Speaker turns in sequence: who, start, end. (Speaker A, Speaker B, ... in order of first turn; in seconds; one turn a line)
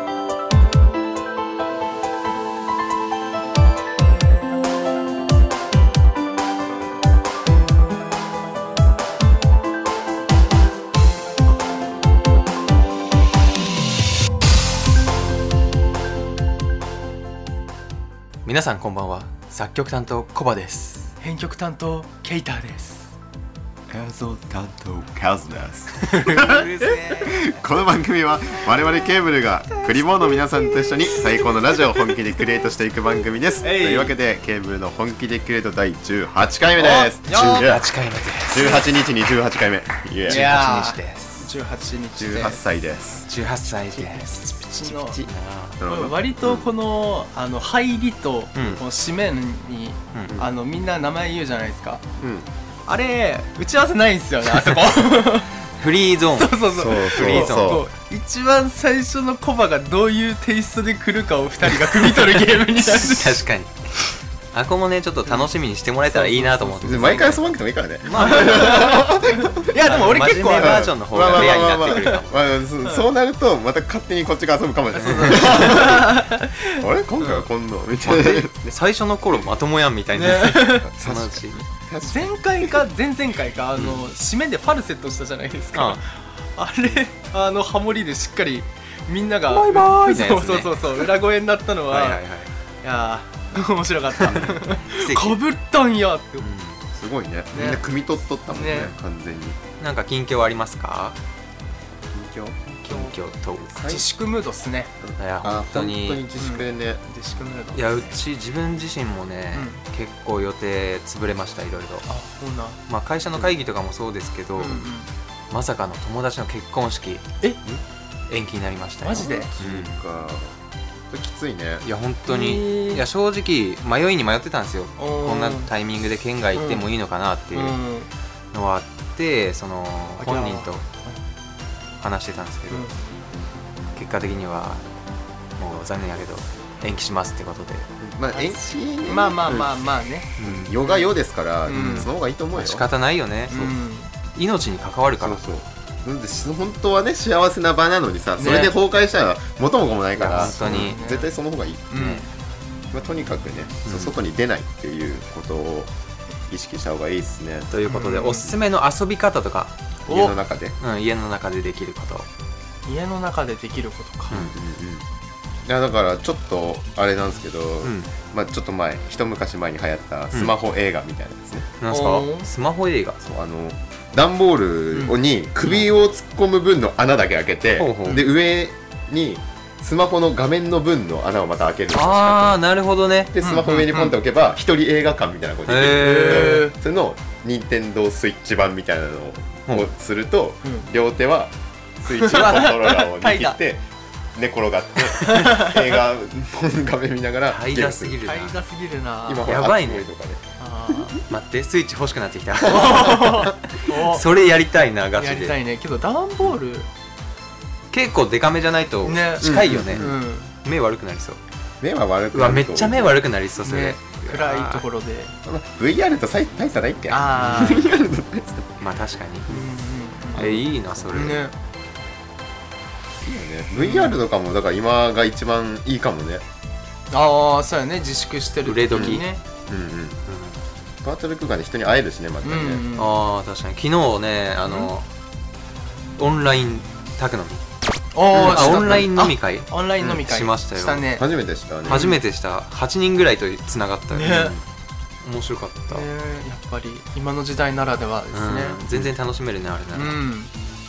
Speaker A: 18.4-21.1
Speaker B: 21.2-23.1
Speaker C: 23.9-26.7
Speaker A: 26.1-27.6
Speaker B: 26.3-27.2
Speaker C: 27.2-37.8
Speaker A: 29.7-32.1
Speaker B: 33.6-34.1
Speaker B: 36.8-37.7
Speaker A: 37.3-38.8
Speaker C: 38.5-40.5
Speaker A: 40.3-41.5
Speaker B: 40.3-42.6
Speaker C: 42.2-43.3
Speaker A: 43.3-44.7
Speaker B: 44.0-45.2
Speaker C: 44.9-45.3
Speaker A: 45.2-45.8
Speaker C: 45.8-46.7
Speaker B: 45.8-52.0
Speaker A: 48.5-48.8
Speaker C: 52.2-52.5
Speaker B: 52.9-55.5
Speaker A: 55.8-57.8
Speaker B: 56.4-63.4
Speaker C: 56.7-57.9
Speaker A: 62.8-67.4
Speaker B: 65.2-65.5
Speaker B: 66.1-67.3
Speaker C: 66.8-69.7
Speaker A: 68.0-69.1
Speaker B: 68.1-72.1
Speaker A: 69.8-72.4
Speaker C: 70.5-78.7
Speaker A: 75.0-75.9
Speaker B: 75.0-76.8
Speaker A: 78.0-81.6
Speaker B: 80.1-80.9
Speaker C: 80.8-82.8
Speaker B: 82.1-92.2
Speaker A: 83.8-84.0
Speaker A: 85.7-86.0
Speaker A: 89.5-91.1
Speaker A: 91.9-92.5
Speaker B: 92.8-96.5
Speaker A: 94.2-95.4
Speaker A: 96.4-96.8
Speaker C: 96.9-99.6
Speaker B: 97.5-97.8
Speaker B: 98.5-98.9
Speaker A: 99.8-101.2
Speaker C: 102.1-103.1
Speaker A: 102.8-103.7
Speaker C: 103.7-104.0
Speaker B: 103.8-104.9
Speaker C: 105.0-107.0
Speaker A: 105.2-106.2
Speaker B: 106.4-108.2
Speaker A: 107.7-112.1
Speaker B: 109.5-109.8
Speaker B: 112.1-112.8
Speaker A: 112.9-114.9
Speaker B: 114.6-115.1
Speaker A: 115.5-117.3
Speaker A: 118.3-119.9
Speaker B: 119.0-119.5
Speaker C: 119.2-120.6
Speaker C: 121.1-121.8
Speaker A: 121.8-127.8
Speaker B: 122.3-123.1
Speaker B: 125.0-125.7
Speaker B: 126.5-126.9
Speaker B: 127.5-128.1
Speaker A: 128.5-130.8
Speaker B: 130.2-131.2
Speaker A: 132.0-132.9
Speaker A: 133.9-134.8
Speaker A: 135.6-137.9
Speaker C: 138.0-139.7
Speaker B: 138.3-141.1
Speaker A: 140.4-140.8
Speaker C: 140.4-142.8
Speaker B: 141.7-142.1
Speaker A: 141.7-143.8
Speaker B: 143.5-144.1
Speaker A: 144.3-145.4
Speaker C: 145.2-152.0
Speaker B: 148.4-148.8
Speaker A: 150.2-151.0
Speaker B: 150.4-151.3
Speaker B: 151.9-152.3
Speaker A: 151.9-152.2
Speaker C: 152.9-155.9
Speaker A: 153.9-154.1
Speaker C: 156.5-157.7
Speaker A: 157.7-162.3
Speaker B: 157.9-158.5
Speaker C: 160.1-160.8
Speaker B: 162.9-164.4
Speaker C: 164.3-165.1
Speaker C: 165.7-171.8
Speaker A: 167.8-168.1
Speaker A: 171.8-173.2
Speaker B: 171.9-172.5
Speaker C: 173.2-182.6
Speaker B: 174.9-175.2
Speaker A: 177.8-178.3
Speaker A: 181.9-183.3
Speaker C: 183.3-198.2
Speaker B: 183.4-184.2
Speaker A: 185.7-186.7
Speaker B: 186.0-186.8
Speaker B: 192.1-193.6
Speaker B: 195.2-195.8
Speaker A: 197.5-198.6
Speaker B: 198.2-199.5
Speaker C: 199.3-200.4
Speaker A: 199.4-200.1
Speaker B: 200.6-201.2
Speaker A: 201.3-205.6
Speaker B: 202.7-204.3
Speaker C: 202.7-203.5
Speaker B: 205.2-206.9
Speaker A: 207.9-210.1
Speaker B: 209.0-210.5
Speaker C: 209.4-210.2
Speaker A: 210.6-211.4
Speaker C: 211.8-213.2
Speaker A: 212.3-214.8
Speaker B: 213.7-215.3
Speaker C: 215.4-218.7
Speaker B: 217.1-217.9
Speaker A: 217.3-217.8
Speaker A: 218.8-219.7
Speaker B: 219.5-220.5
Speaker C: 220.3-221.4
Speaker A: 220.3-221.5
Speaker B: 221.1-221.5
Speaker C: 223.2-226.4
Speaker B: 223.8-224.2
Speaker B: 227.1-229.4
Speaker A: 228.6-229.2
Speaker C: 228.9-230.2
Speaker A: 230.3-230.6
Speaker C: 231.0-232.8
Speaker B: 232.4-233.2
Speaker A: 232.9-235.1
Speaker A: 236.2-237.6
Speaker B: 238.1-241.2
Speaker C: 238.3-239.1
Speaker A: 238.3-241.1
Speaker C: 241.2-242.1
Speaker A: 241.9-244.6
Speaker B: 241.9-242.2
Speaker B: 244.1-244.5
Speaker A: 245.2-246.1
Speaker B: 245.9-248.8
Speaker A: 248.3-250.2
Speaker B: 249.9-250.5